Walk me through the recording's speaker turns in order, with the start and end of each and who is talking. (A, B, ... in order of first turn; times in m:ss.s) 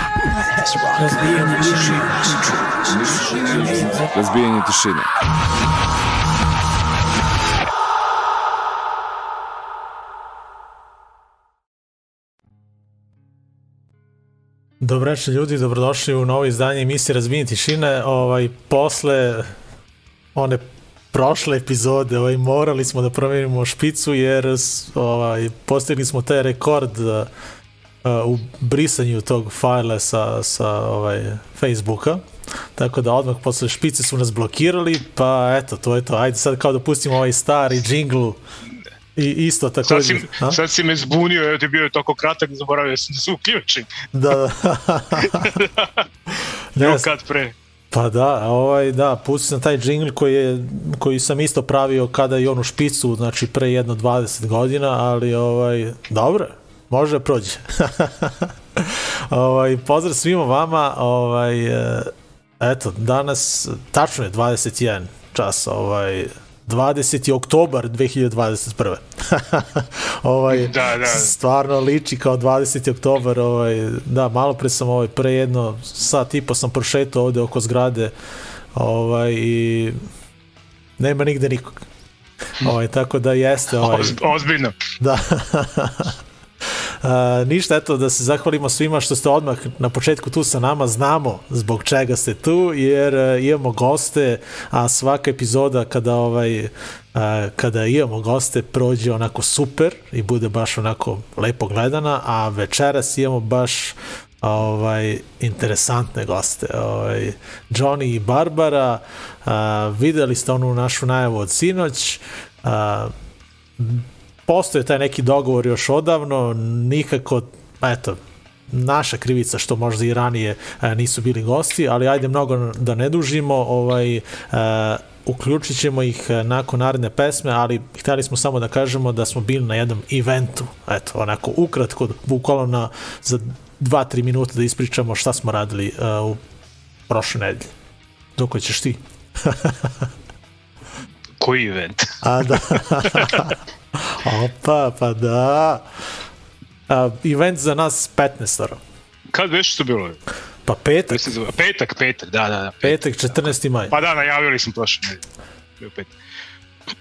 0:00.4-0:05.1 A
0:14.8-0:19.5 B
0:20.4-0:27.3 B
0:28.0-0:32.2 B
0:32.8-0:38.4 B
0:39.2-0:40.6 B
0:39.9-0:43.9 C
0:44.1-0:45.6 B
0:45.2-0:46.0 C
0:46.7-0:47.1 B
0:46.8-0:47.6 C
0:47.9-1:18.1 B
1:10.5-1:11.3 C
1:18.8-1:20.0 B
1:21.0-1:21.8 B
1:22.6-1:24.2 B
1:23.8-1:24.7 C
1:25.0-1:53.1 B
1:53.8-2:16.4 B
2:17.1-2:17.7 B
2:18.4-2:20.1 B
2:21.4-2:22.1 C
2:22.2-2:25.9 B
2:23.0-2:23.4 C
2:26.9-2:28.8 B
2:29.3-2:30.2 C
2:30.7-2:31.3 B
2:31.1-2:35.2 C
2:32.8-2:34.0 B
2:35.8-2:36.2 C